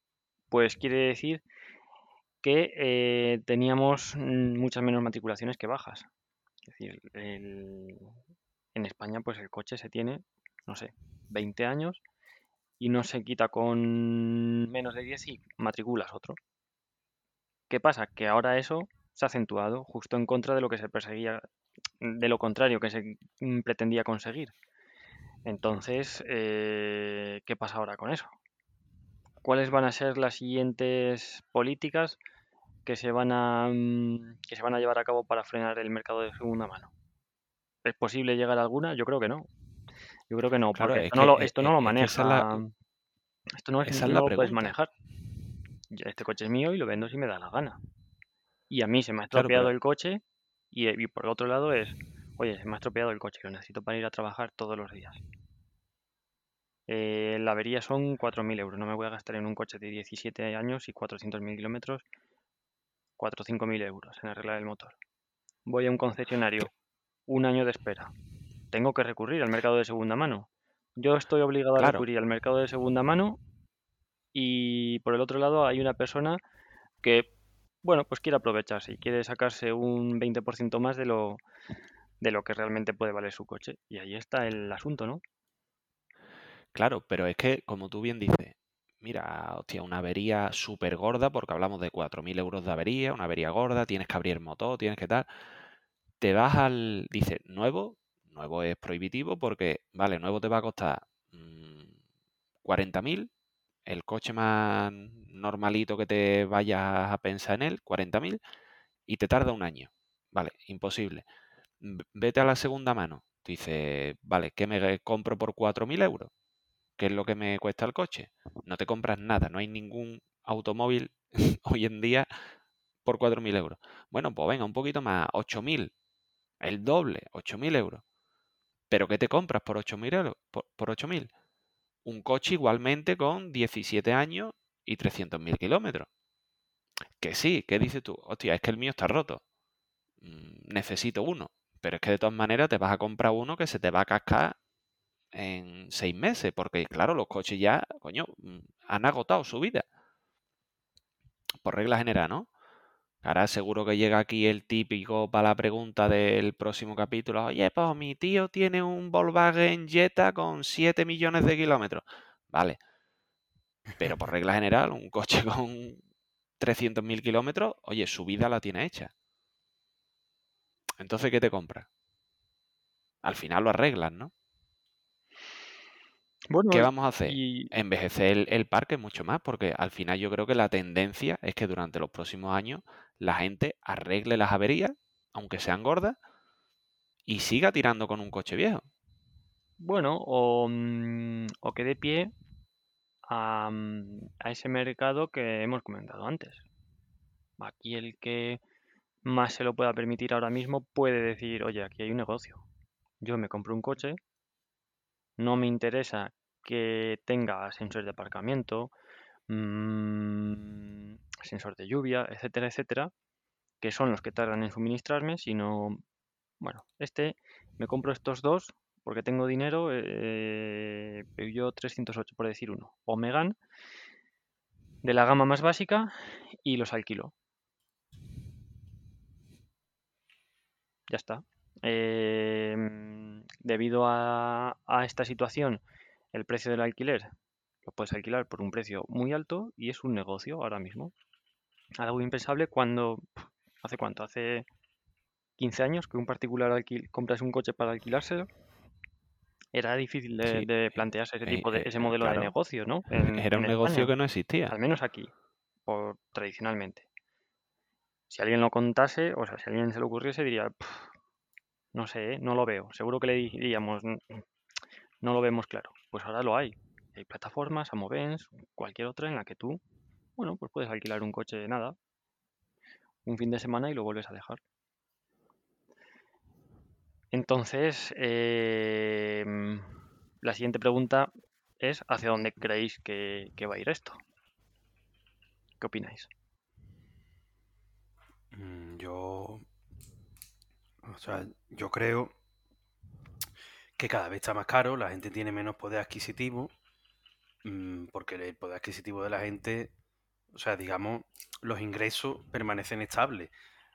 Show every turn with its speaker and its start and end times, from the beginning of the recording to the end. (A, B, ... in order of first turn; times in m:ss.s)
0:00.5-0:01.4 A
0:02.4-0:06.1 A
0:06.7-0:08.1 A
0:08.8-0:12.0 A
0:12.8-0:16.4 A
0:17.7-0:21.4 A
0:22.0-0:24.5 A
0:25.5-0:28.4 A
0:29.4-0:32.2 A
0:32.8-0:36.9 A
0:37.8-0:39.5 A
0:40.3-0:42.7 A
0:40.8-0:42.6 B
0:43.6-0:44.9 A
0:43.9-0:44.7 B
0:45.9-0:47.8 A
0:48.7-0:55.2 A
0:49.3-0:49.7 B
0:56.9-1:02.0 A
1:03.2-1:05.0 A
1:05.7-1:06.7 A
1:07.3-1:08.1 A
1:08.7-1:13.4 A
1:11.8-1:12.0 B
1:14.3-1:16.4 A
1:17.0-1:17.3 A
1:17.8-1:21.4 A
1:22.2-1:25.2 A
1:26.8-1:35.3 B
1:36.2-1:41.9 B
1:42.6-1:43.3 B
1:43.9-1:48.4 B
1:49.1-1:51.2 B
1:51.8-1:56.3 B
1:57.0-2:02.3 B
2:03.0-2:05.9 B
2:06.6-2:08.0 B
2:08.9-2:11.3 B
2:12.0-2:16.1 B
2:17.2-2:19.4 B
2:20.2-2:24.6 B
2:25.3-2:29.8 B
2:31.6-2:32.5 B
2:33.2-2:42.8 B
2:44.0-2:46.0 B
2:46.6-2:49.1 B
2:51.0-2:51.9 B
2:53.2-2:54.3 B
2:56.5-2:57.7 A
2:56.7-3:06.2 B
3:07.3-3:08.9 B
3:09.8-3:12.3 A
3:13.3-3:16.6 A
3:17.6-3:18.6 A
3:19.2-3:22.6 A
3:23.2-3:24.2 A
3:25.4-3:28.9 A
3:29.5-3:33.1 A
3:33.8-3:36.0 A
3:36.6-3:43.6 A
3:45.0-3:47.3 A
3:51.1-3:55.8 A
3:56.3-3:57.3 A
3:57.8-4:01.1 A
4:02.0-4:04.7 A
4:05.6-4:08.5 A
4:09.7-4:14.1 A
4:10.4-4:12.5 B
4:13.2-4:14.8 B
4:14.7-4:15.3 A
4:15.9-4:17.1 A
4:18.3-4:21.1 A
4:21.9-4:24.4 A
4:25.2-4:29.8 A
4:30.4-4:32.0 A
4:33.2-4:34.6 A
4:37.3-4:44.2 A
4:45.8-4:46.3 A
4:48.5-4:49.7 C
4:51.0-4:52.4 C
4:54.0-4:56.7 C
4:57.6-4:59.9 C
5:00.5-5:03.5 C